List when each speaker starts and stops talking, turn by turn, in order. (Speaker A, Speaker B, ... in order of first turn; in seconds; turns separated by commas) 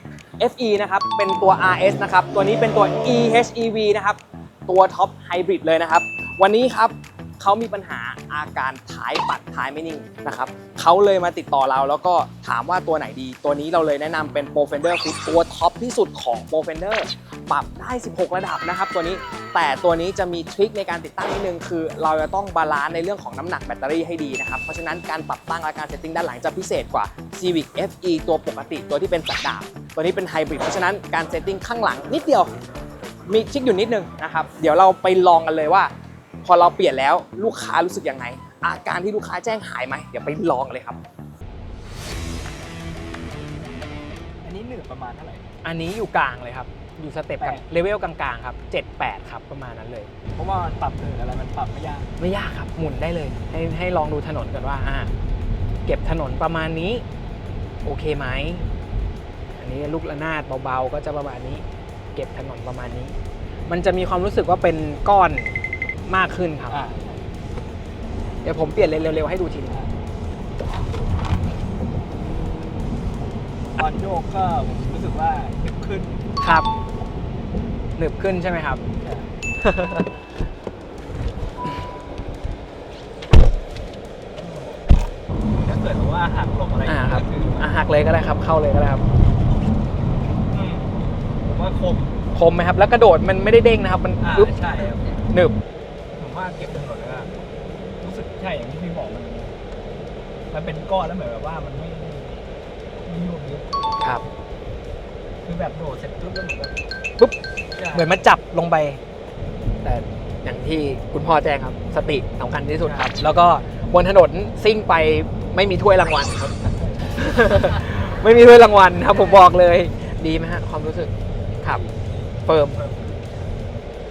Speaker A: 0.4-32.5, Speaker A: 33.3-35.9, Speaker A: 36.4-41.0, Speaker B: 44.4-45.5, Speaker C: 45.6-50.1, Speaker B: 47.4-47.7, Speaker B: 50.3-52.1, Speaker C: 52.2-55.1, Speaker C: 55.9-57.0, Speaker C: 57.8-58.7, Speaker C: 59.6-61.6, Speaker C: 62.1-63.1, Speaker C: 63.7-66.8, Speaker B: 66.7-67.2, Speaker C: 68.4-69.8, Speaker B: 73.8-76.2, Speaker C: 76.4-76.7, Speaker C: 78.0-78.8, Speaker B: 79.0-79.3, Speaker C: 79.6-80.1, Speaker B: 84.3-84.9, Speaker B: 85.6-87.8, Speaker C: 86.9-89.0, Speaker B: 90.5-92.1, Speaker C: 92.3-94.5, Speaker B: 94.2-95.2, Speaker C: 95.3-95.6, Speaker B: 96.2-97.3, Speaker B: 98.0-99.5, Speaker B: 100.5-102.5, Speaker B: 103.0-103.9, Speaker C: 104.0-104.2, Speaker B: 105.4-106.8, Speaker B: 107.7-108.1, Speaker C: 107.9-109.0, Speaker C: 109.8-116.6, Speaker B: 112.8-113.2, Speaker B: 116.6-117.2, Speaker C: 117.1-121.8, Speaker B: 121.6-123.7, Speaker C: 122.5-122.8